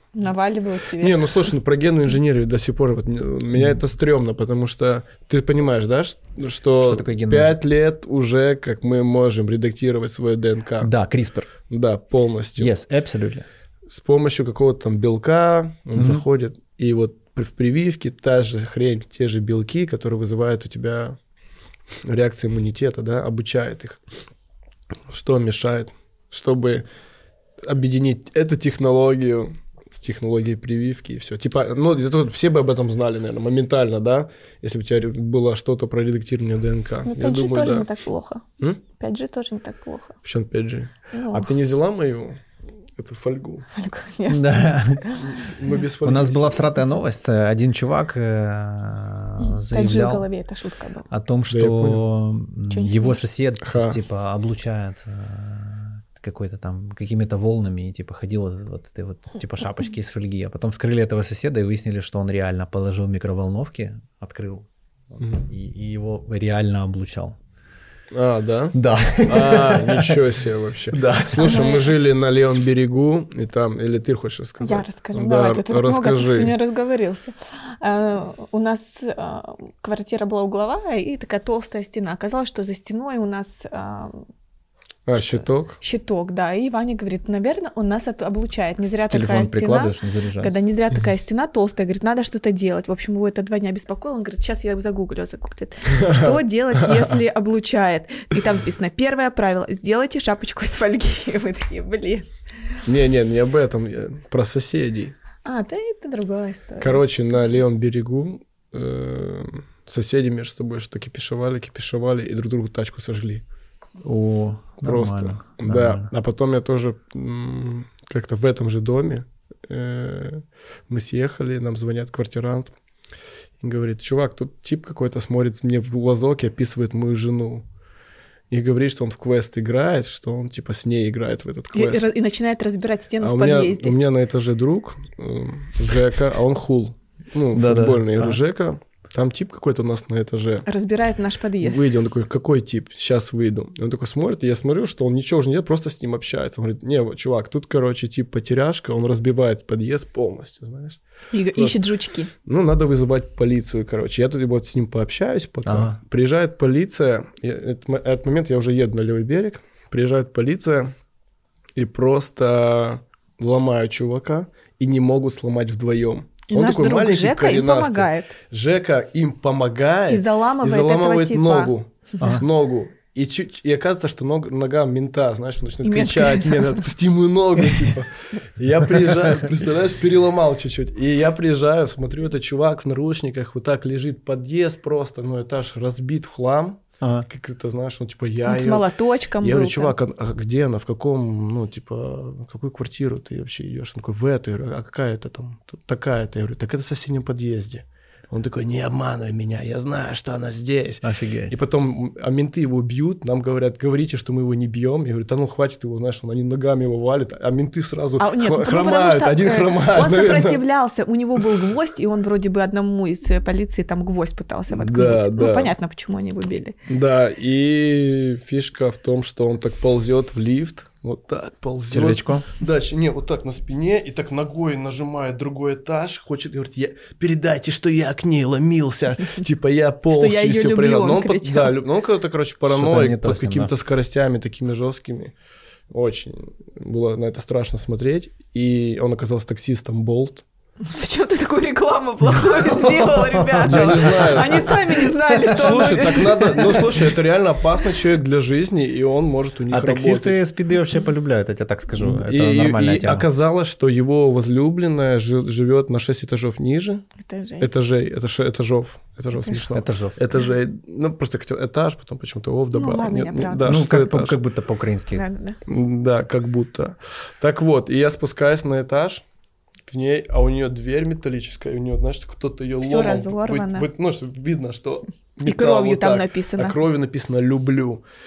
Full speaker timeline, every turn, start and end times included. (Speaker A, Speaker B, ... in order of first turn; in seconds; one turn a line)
Speaker A: 0.1-1.2
Speaker B: 1.0-10.9
Speaker C: 6.8-7.6
Speaker C: 10.8-11.5
Speaker B: 11.7-12.7
Speaker C: 12.6-13.4
Speaker B: 13.9-21.2
Speaker C: 15.9-16.2
Speaker B: 22.0-24.0
Speaker B: 25.1-26.9
Speaker B: 27.6-37.9
Speaker A: 37.0-40.1
Speaker B: 40.2-42.4
Speaker A: 41.1-41.5
Speaker B: 43.0-43.7
Speaker A: 43.7-45.5
Speaker C: 44.3-45.0
Speaker B: 45.2-46.7
Speaker C: 46.0-50.3
Speaker A: 49.4-51.1
Speaker C: 51.1-67.3
Speaker B: 51.5-52.0
Speaker A: 52.7-53.2
Speaker B: 53.6-54.0
Speaker B: 65.2-65.5
Speaker B: 68.1-76.5
Speaker C: 68.7-70.2
Speaker C: 70.9-71.6
Speaker A: 71.4-71.9
Speaker A: 74.6-84.2
Speaker B: 85.1-85.8
Speaker A: 85.2-102.3
Speaker C: 89.1-90.6
Speaker B: 95.9-97.1
Speaker B: 102.8-105.1
Speaker A: 105.4-107.0
Speaker B: 106.8-113.4
Speaker C: 114.0-116.1
Speaker B: 114.8-122.7
Speaker B: 123.6-127.6
Speaker B: 128.5-132.1
Speaker A: 131.7-133.9
Speaker B: 133.2-140.7
Speaker C: 137.5-138.4
Speaker A: 140.7-141.8
Speaker B: 141.6-151.0
Speaker A: 151.3-152.3
Speaker B: 152.4-160.9
Speaker C: 155.7-156.0
Speaker B: 161.8-188.9
Speaker A: 166.5-168.3
Speaker A: 170.1-171.7
Speaker C: 172.2-172.4
Speaker A: 175.8-176.8
Speaker C: 187.0-187.2
Speaker A: 188.4-189.9
Speaker B: 189.4-210.6
Speaker C: 201.0-201.5
Speaker A: 208.2-216.7
Speaker B: 214.7-215.7
Speaker B: 216.9-235.3
Speaker C: 221.9-222.5
Speaker A: 230.1-231.8
Speaker C: 232.7-233.7
Speaker B: 235.9-240.4
Speaker A: 240.8-246.9
Speaker C: 243.3-244.2
Speaker B: 243.6-244.8
Speaker B: 245.4-250.4
Speaker C: 249.7-253.2
Speaker B: 252.0-257.1
Speaker A: 257.2-257.7
Speaker B: 257.6-264.4
Speaker C: 259.6-260.2
Speaker A: 262.7-263.8
Speaker C: 263.6-265.2
Speaker A: 265.1-265.6
Speaker B: 265.7-269.2
Speaker B: 269.9-278.0
Speaker A: 272.8-273.9
Speaker A: 275.4-276.8